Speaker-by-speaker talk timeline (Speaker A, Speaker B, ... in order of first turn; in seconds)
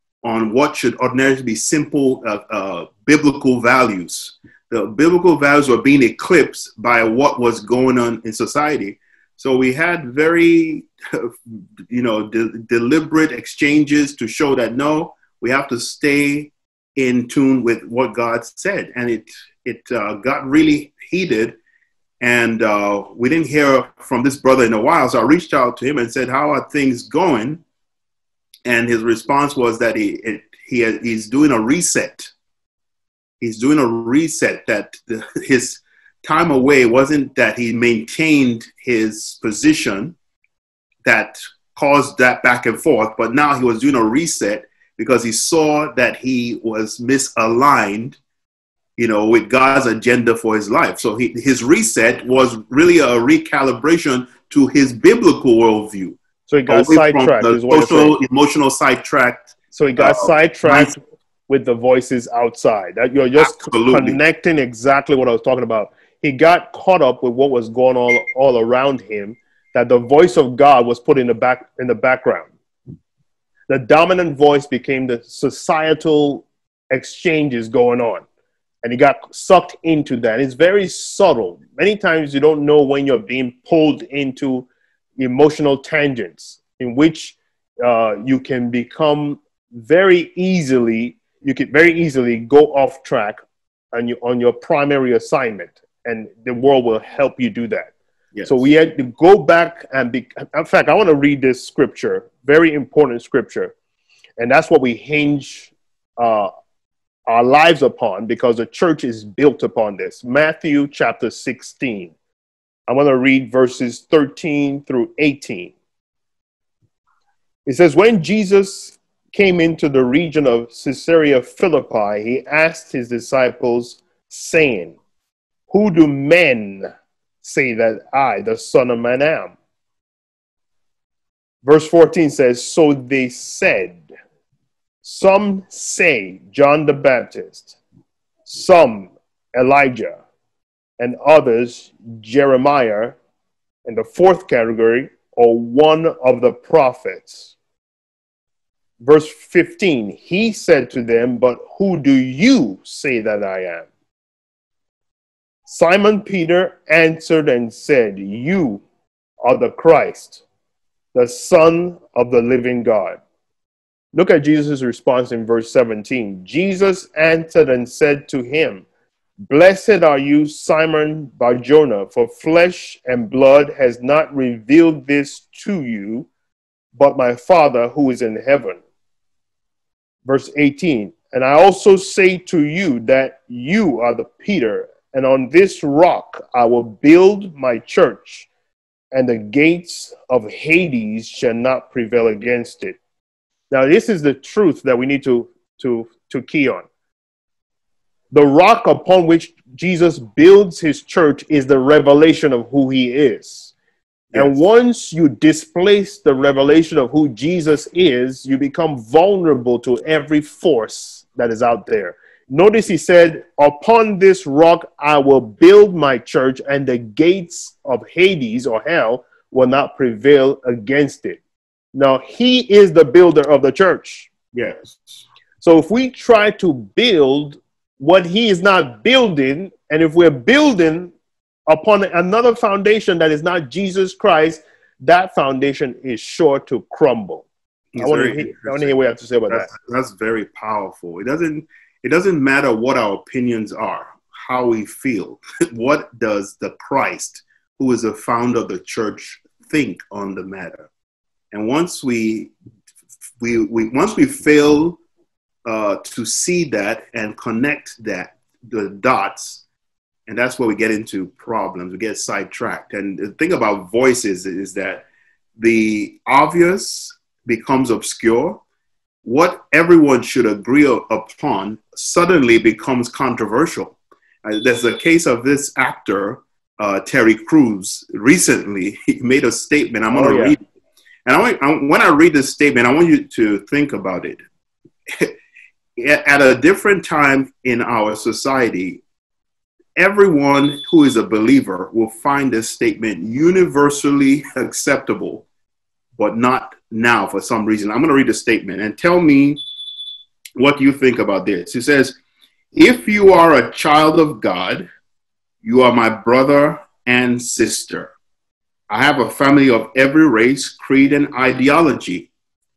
Speaker A: 0.2-21.6, 22.2-27.6, 28.6-32.3, 33.4-40.1, 41.0-48.2, 49.0-56.2, 56.7-60.9, 63.4-64.2, 224.5-225.2, 237.9-239.0, 239.5-250.9, 251.5-252.5, 253.4-255.0, 255.7-259.6, 260.3-265.1, 265.6-268.6, 269.2-280.6, 281.3-284.4, 286.0-289.0, 290.0-295.4, 296.2-299.6, 300.6-302.2, 302.7-304.9, 305.6-308.1, 308.9-312.3
Speaker B: 56.5-58.2, 59.7-72.5, 73.7-78.2, 78.8-93.4, 93.9-97.9, 98.5-103.7, 104.4-106.5, 107.3-112.1, 112.9-115.7, 117.7-125.0, 125.7-126.9, 127.4-129.5, 131.6-134.0, 135.0-137.8, 138.5-140.2, 141.0-143.2, 143.9-147.5, 149.0-153.9, 155.7-158.8, 159.4-160.4, 161.1-163.2, 164.1-168.8, 169.5-176.3, 177.0-178.8, 180.3-188.5, 189.1-193.0, 193.7-196.9, 198.3-203.7, 204.3-221.4, 221.9-224.3, 225.6-231.1, 231.7-237.5, 238.0-239.7, 280.1-280.6